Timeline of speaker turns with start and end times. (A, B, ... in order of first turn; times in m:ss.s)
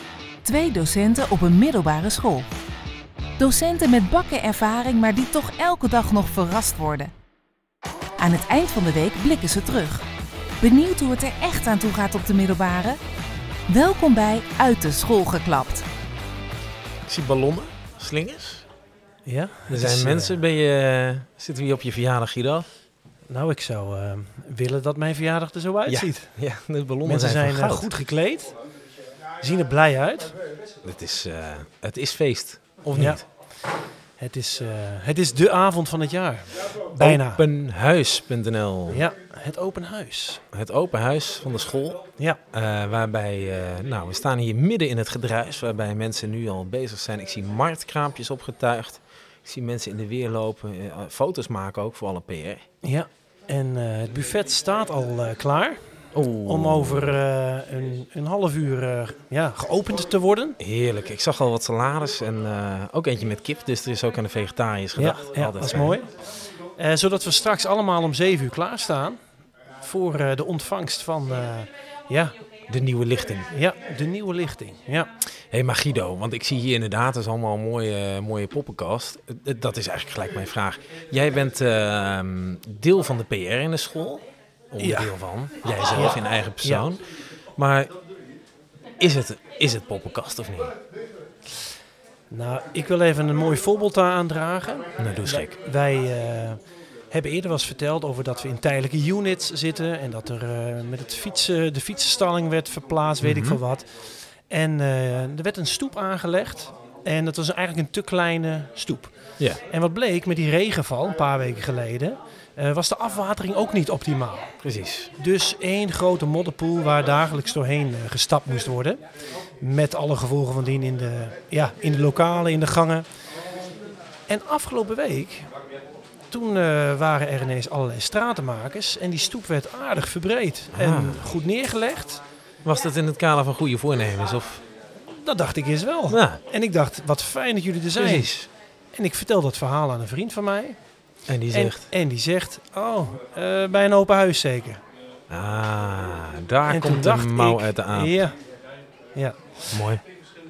0:00.4-0:02.5 A
0:03.4-0:07.1 A
0:08.2-0:10.0 A
0:10.6-0:13.0 A
0:13.7-0:15.8 A
0:17.1-0:18.6 B
0:19.2-0:20.4 C
0:19.7-0:22.6 B
0:23.3-0:26.3 C
0:25.9-0:27.9 B
0:27.0-0:28.5 C
0:29.4-0:30.3 C
0:30.8-0:33.2 B
0:32.9-0:33.2 C
0:34.2-0:37.4 C
0:37.0-0:39.0 B
0:38.9-0:40.4 C
0:40.5-0:52.6 B
0:52.8-0:55.8 C
0:56.1-0:57.2 B
0:56.4-1:00.6 C
1:00.6-1:06.0 B
1:05.0-1:06.1 C
1:06.8-1:09.2 C
1:09.8-1:12.4 C
1:12.7-1:13.5 B
1:13.5-1:15.1 C
1:15.5-1:27.9 B
1:24.8-1:25.1 C
1:25.9-1:26.9 C
1:29.0-1:30.7 B
1:32.3-1:43.9 C
1:35.0-1:35.6 B
1:43.2-1:43.6 B
1:44.5-1:54.5 C
1:54.6-1:55.1 B
1:55.2-1:59.0 C
1:59.6-2:03.0 C
2:04.3-2:05.5 C
2:06.3-2:12.2 C
2:10.7-2:11.3 B
2:12.6-2:14.6 B
2:15.1-2:18.3 C
2:16.1-2:16.4 B
2:18.0-2:18.5 B
2:18.9-2:20.8 C
2:21.3-2:21.9 B
2:21.5-2:24.8 C
2:25.3-2:28.2 B
2:26.7-2:28.4 C
2:29.1-2:29.8 C
2:29.7-2:30.0 B